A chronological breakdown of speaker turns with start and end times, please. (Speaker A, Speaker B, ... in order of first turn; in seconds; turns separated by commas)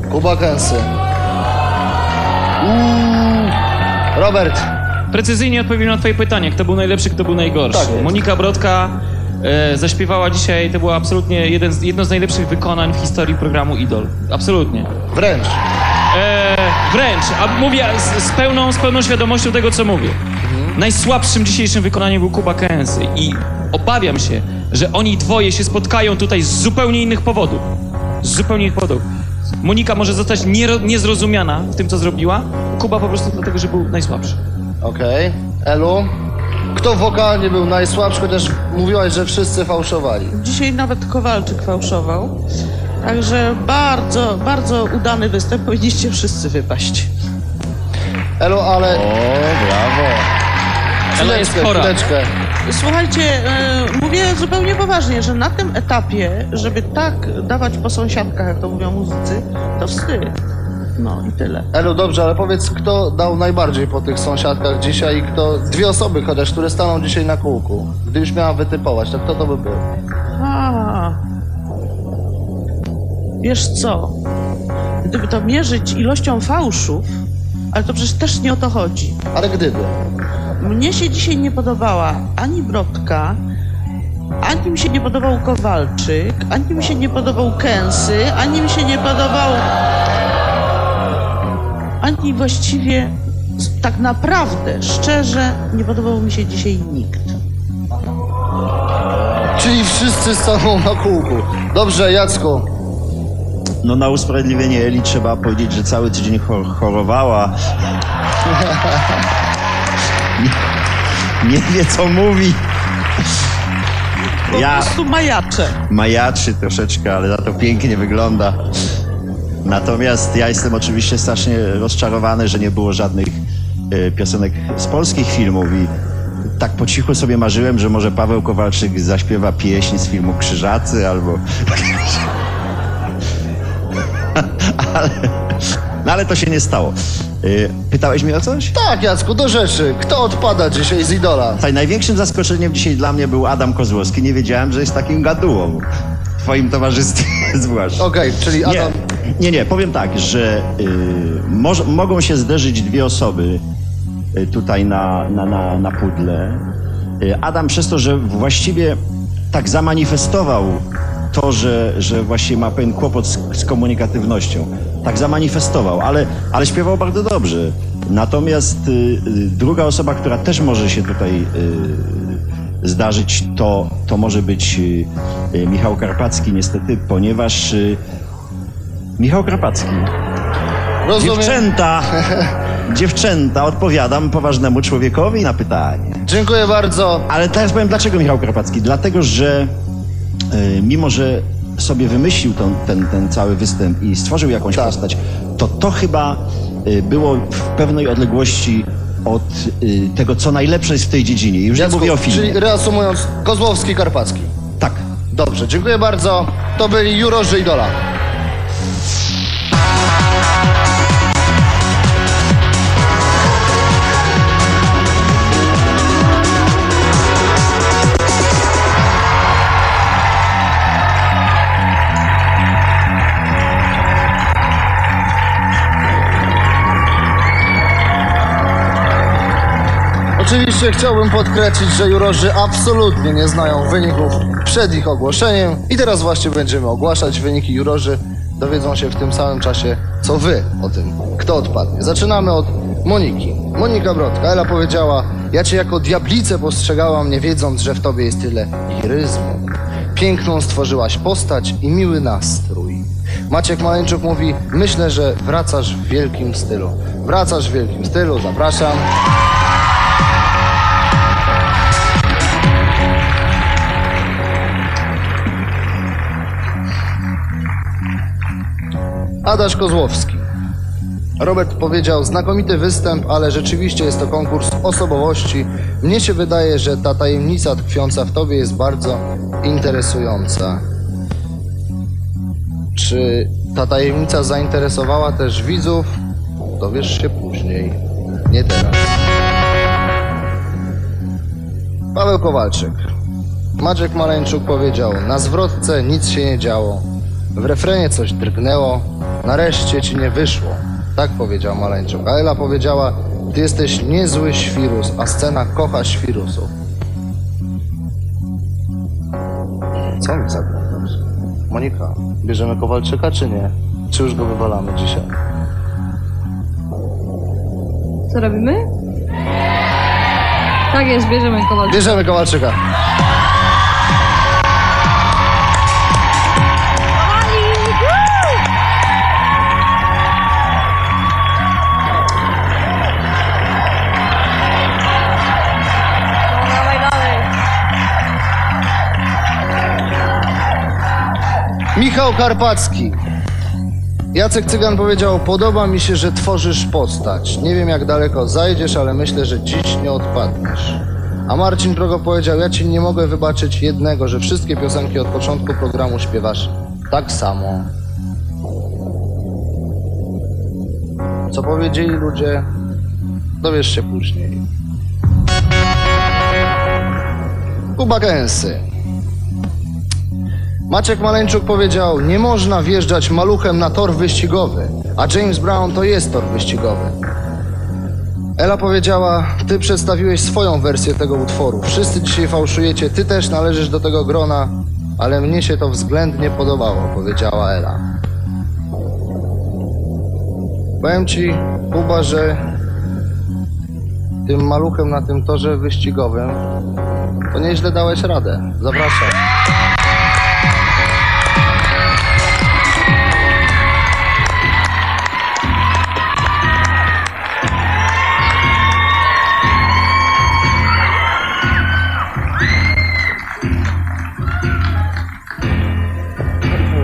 Speaker A: 0.1-0.9, Speaker A: 2.6-3.5, Speaker A: 4.1-4.7, Speaker B: 5.1-14.9, Speaker A: 7.7-8.2, Speaker A: 15.1-15.6, Speaker B: 16.1-20.2, Speaker A: 20.4-20.8, Speaker B: 20.7-27.6, Speaker B: 28.2-29.1, Speaker B: 29.6-34.4, Speaker A: 34.8-36.1, Speaker A: 36.7-40.3, Speaker C: 40.3-42.4, Speaker C: 43.0-47.1, Speaker A: 48.4-50.3, Speaker A: 51.1-52.3, Speaker B: 51.2-52.0, Speaker C: 52.6-60.3, Speaker C: 61.0-61.7, Speaker A: 61.7-69.8, Speaker C: 70.3-71.2, Speaker C: 73.4-74.2, Speaker C: 75.0-77.2, Speaker C: 77.7-79.2, Speaker A: 79.3-79.9, Speaker C: 80.6-83.4, Speaker C: 84.4-89.7, Speaker C: 92.0-97.4, Speaker A: 99.6-102.7, Speaker D: 103.8-107.5, Speaker A: 108.6-109.0, Speaker D: 111.4-112.6, Speaker C: 114.5-115.8, Speaker D: 114.5-114.9, Speaker D: 115.9-118.6, Speaker D: 119.6-125.9, Speaker D: 126.6-132.2, Speaker D: 134.3-135.3, Speaker D: 136.0-138.7, Speaker A: 138.7-141.6, Speaker D: 141.6-145.8, Speaker D: 146.4-148.1, Speaker A: 148.0-148.9, Speaker D: 148.6-153.6, Speaker D: 154.3-156.7, Speaker D: 157.2-159.0, Speaker D: 159.5-178.0, Speaker D: 179.2-180.1, Speaker A: 181.0-181.6, Speaker D: 181.2-182.1, Speaker A: 182.2-182.5, Speaker D: 182.9-186.2, Speaker A: 186.2-187.2, Speaker D: 187.3-189.7, Speaker D: 190.5-202.6, Speaker A: 201.8-204.5, Speaker A: 205.3-207.9, Speaker A: 230.4-259.1, Speaker A: 269.4-270.4, Speaker A: 271.4-280.8, Speaker A: 282.9-286.1, Speaker A: 286.8-289.1, Speaker A: 292.1-293.1, Speaker A: 293.8-306.7, Speaker A: 310.2-315.3, Speaker E: 318.3-318.9, Speaker E: 320.9-322.2, Speaker A: 321.9-322.8, Speaker E: 336.7-337.4, Speaker A: 341.9-343.1, Speaker A: 344.3-357.9, Speaker A: 361.5-362.6, Speaker A: 363.6-364.6, Speaker A: 367.9-368.8, Speaker A: 370.9-377.1, Speaker A: 378.6-388.0, Speaker A: 391.0-392.6, Speaker A: 394.4-396.6, Speaker A: 397.5-399.4